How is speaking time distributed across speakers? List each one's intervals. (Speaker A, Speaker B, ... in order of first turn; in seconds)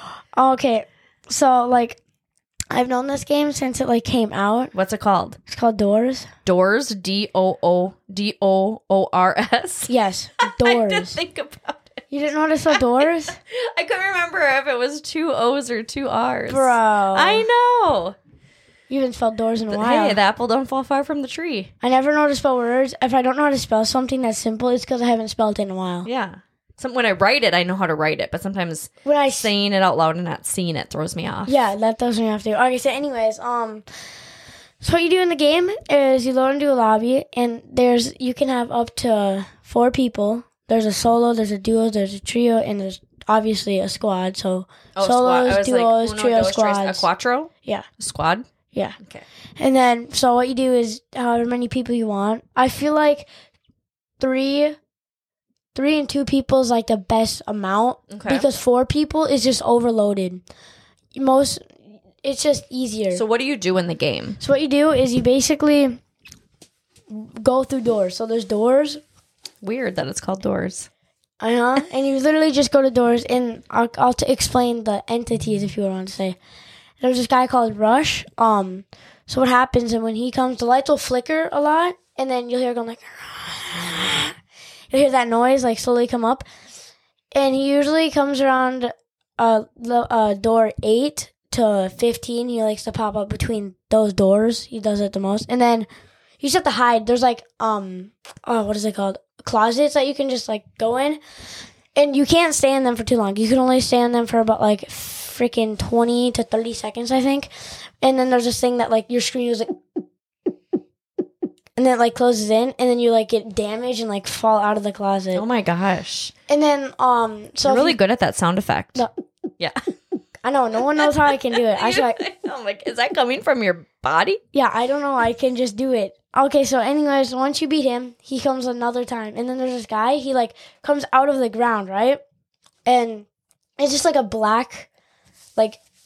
Speaker A: 0.3-2.0, 2.7-4.7, 5.5-6.3, 9.9-11.2, 12.1-13.4, 16.5-17.5, 18.9-20.2, 21.8-26.1, 29.1-29.5, 31.5-33.9, 34.8-47.1, 48.7-49.0, 49.6-53.3, 54.2-54.8, 55.8-60.4, 61.2-61.7, 62.2-63.2, 64.4-66.0, 67.1-69.0, 71.4-76.4, 77.0-84.4, 84.9-86.5, 87.3-95.9, 96.4-101.2, 102.0-107.5, 108.0-109.8, 111.8-115.5, 116.5-118.0, 120.4-122.2, 124.5-132.2, 132.9-133.3, 133.8-134.9
Speaker B: 4.7-5.4, 6.5-12.0, 12.7-18.2, 19.7-21.7, 26.1-31.5, 45.0-48.5, 49.0-49.3, 58.1-58.5, 63.1-64.4, 69.6-70.9, 115.3-116.3, 117.7-119.1, 121.0-124.4